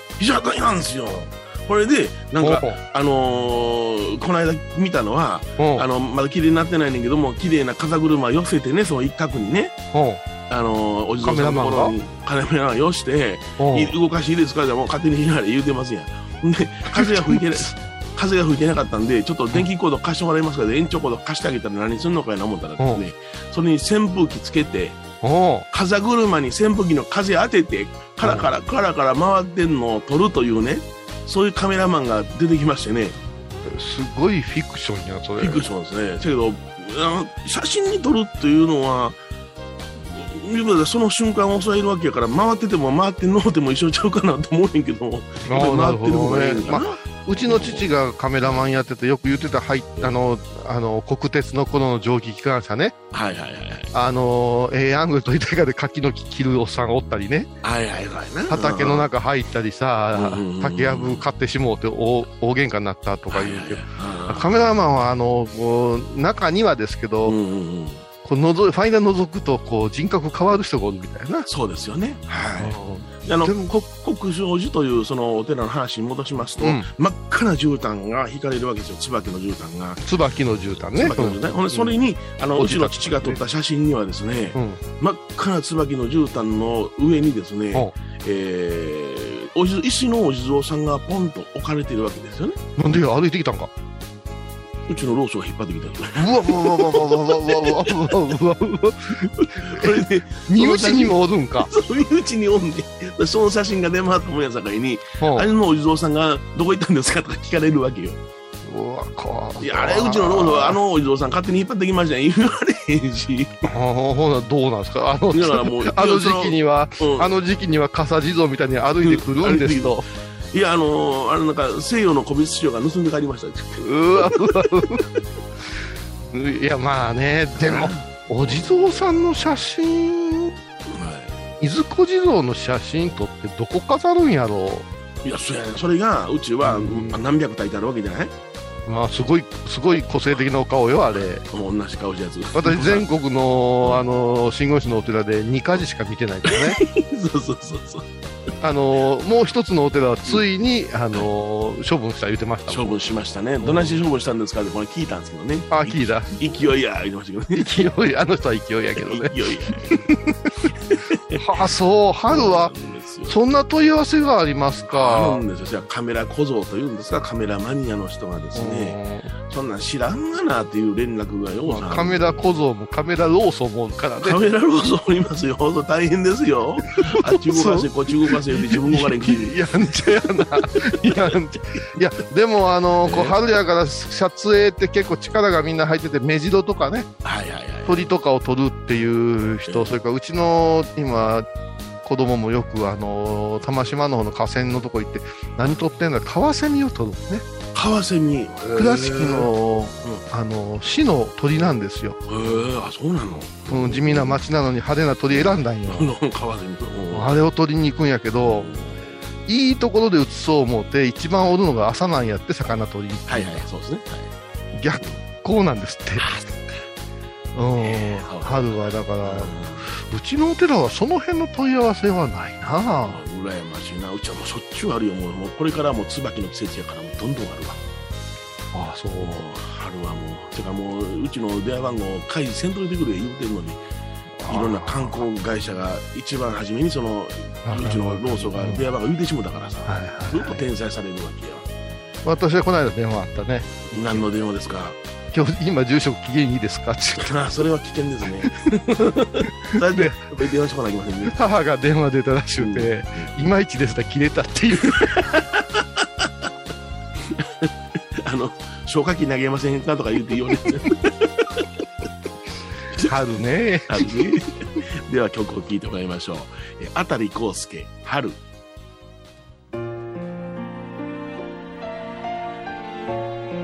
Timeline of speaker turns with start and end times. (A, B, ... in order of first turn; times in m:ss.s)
0:00.2-0:09.7 A
0:02.4-0:02.8 B
0:05.6-0:05.9 B
0:09.9-0:10.2 B
0:10.5-0:25.0 A
0:11.2-0:11.9 B
0:13.6-0:14.0 B
0:16.9-0:17.8 B
0:22.8-0:23.0 B
0:25.2-0:25.7 B
0:25.7-0:33.2 A
0:28.2-0:28.5 B
0:33.6-0:35.7 B
0:35.4-0:39.2 A
0:40.0-0:47.9 A
0:45.5-0:53.0 B
0:53.1-0:53.9 A
0:53.9-0:57.5 B
0:57.6-0:59.1 A
0:58.5-1:07.4 B
1:00.1-1:01.2 A
1:03.3-1:04.5 A
1:07.2-1:08.0 A
1:08.2-1:11.5 B
1:11.5-1:20.0 A
1:12.6-1:13.7 B
1:16.6-1:16.9 B
1:20.0-1:22.0 B
1:20.9-1:32.6 A
1:22.5-1:23.4 B
1:24.5-1:24.8 B
1:32.8-1:33.7 B
1:34.9-1:38.2 A
1:36.2-1:41.7 B
1:39.3-1:48.2 A
1:45.2-1:45.5 B
1:48.6-1:50.8 B
1:49.6-1:53.7 A
1:53.6-2:00.1 B
1:55.3-1:57.3 A
1:59.0-2:00.0 A
2:00.5-2:05.0 A
2:03.8-2:05.0 B
2:06.3-2:10.6 B
2:07.6-2:09.0 A
2:10.9-2:11.4 A
2:11.6-2:14.9 B
2:15.2-2:18.3 A
2:16.6-2:17.2 B
2:18.9-2:21.4 B
2:21.5-2:23.1 A
2:22.6-2:26.8 B
2:26.4-2:28.1 A
2:28.6-2:33.0 B
2:32.7-2:37.7 A
2:33.6-2:34.0 B
2:35.7-2:36.4 B
2:37.5-2:40.7 B
2:39.0-2:40.1 A
2:40.7-2:41.4 A
2:41.3-2:42.7 B
2:42.3-2:43.4 A
2:43.3-2:45.4 B
2:44.9-2:49.0 A
2:48.6-2:49.3 B
2:49.5-2:52.4 A
2:51.7-2:54.4 B
2:54.2-3:01.4 A
2:56.8-3:07.1 B
3:03.0-3:03.4 A
3:07.2-3:08.1 A
3:07.8-3:11.4 B
3:09.7-3:09.9 A
3:12.0-3:17.4 B
3:17.7-3:19.5 A
3:18.7-3:22.5 B
3:22.3-3:24.4 A
3:23.7-3:26.1 B
3:25.9-3:27.4 A
3:27.1-3:28.7 B
3:28.4-3:29.1 A
3:29.5-3:33.7 B
3:33.3-3:34.3 A
3:34.7-3:36.4 B
3:36.2-3:36.6 A
3:37.6-3:43.2 B
3:37.8-3:39.9 A
3:43.1-3:47.8 A
3:48.7-3:49.4 B
3:49.2-3:53.8 A
3:54.4-3:55.2 B
3:54.5-4:01.7 A
3:57.6-3:58.8 B
3:59.8-4:00.6 B
4:02.2-4:04.2 B
4:03.9-4:05.0 A
4:05.3-4:07.4 B
4:07.2-4:11.4 A
4:09.8-4:10.2 B
4:11.2-4:15.3 B
4:12.6-4:13.3 A
4:14.9-4:16.3 A
4:17.3-4:21.7 A
4:22.9-4:23.2 A
4:23.0-4:24.4 B
4:23.9-4:28.4 A